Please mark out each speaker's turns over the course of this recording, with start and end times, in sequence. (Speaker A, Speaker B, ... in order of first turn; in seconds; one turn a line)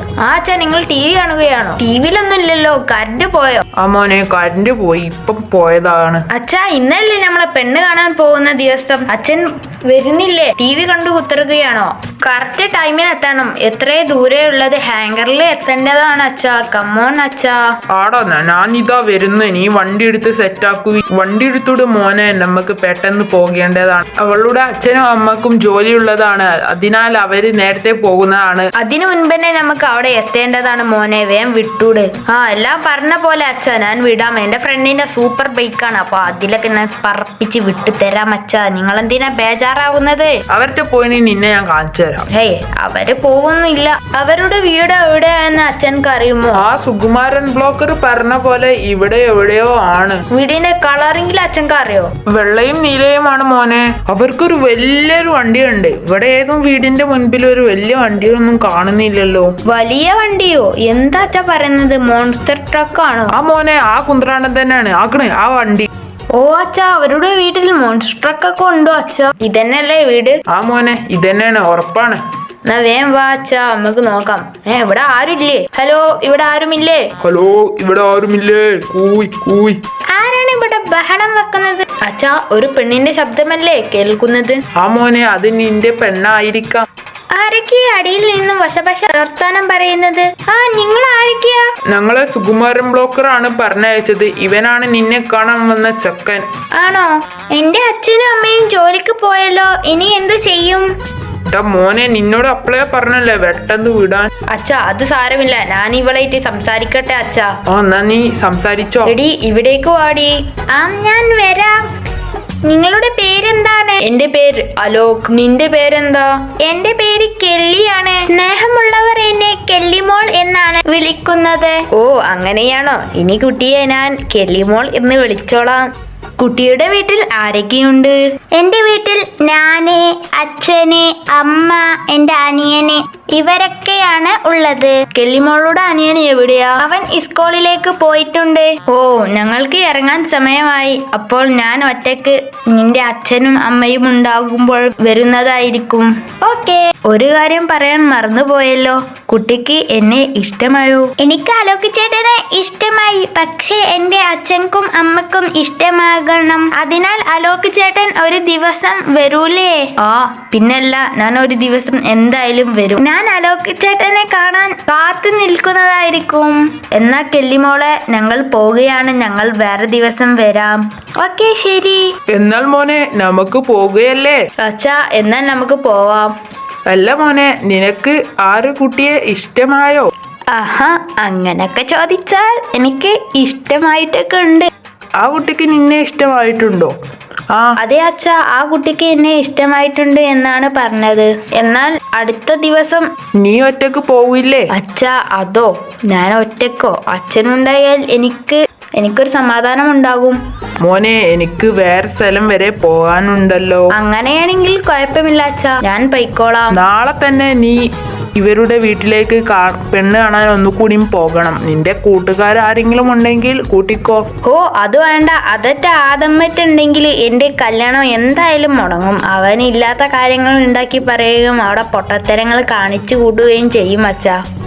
Speaker A: 0.2-3.6
Speaker B: 3.8-6.3
Speaker A: 6.3-17.7
Speaker B: 17.9-28.7
Speaker A: 28.8-40.4
Speaker B: 40.5-42.3
Speaker A: 42.3-46.6
Speaker B: 46.5-50.2
Speaker A: 50.3-52.1
Speaker B: 52.2-59.5
Speaker A: 59.6-63.3
Speaker B: 63.3-65.9
Speaker A: 66.3-70.4
Speaker B: 70.5-72.2
Speaker A: 72.7-77.1
Speaker B: 77.2-79.8
Speaker A: 80.1-84.6
Speaker B: 84.7-86.8
Speaker A: 87.3-91.7
Speaker B: 91.9-96.5
Speaker A: 96.7-100.9
Speaker B: 101.5-104.3
Speaker A: 104.5-107.5
Speaker B: 107.7-109.1
Speaker A: 109.0-111.8
Speaker A: 112.7-172.1
Speaker B: 172.3-174.4
Speaker A: 174.6-176.3
Speaker B: 176.9-180.1
Speaker A: 180.5-184.7
Speaker B: 185.2-186.9
Speaker B: 187.5-187.8
Speaker A: 187.8-193.1
Speaker B: 193.4-194.7
Speaker A: 194.7-200.4
Speaker B: 200.8-203.9
Speaker A: 203.9-206.8
Speaker B: 206.7-207.8
Speaker B: 208.3-214.2
Speaker A: 214.4-224.4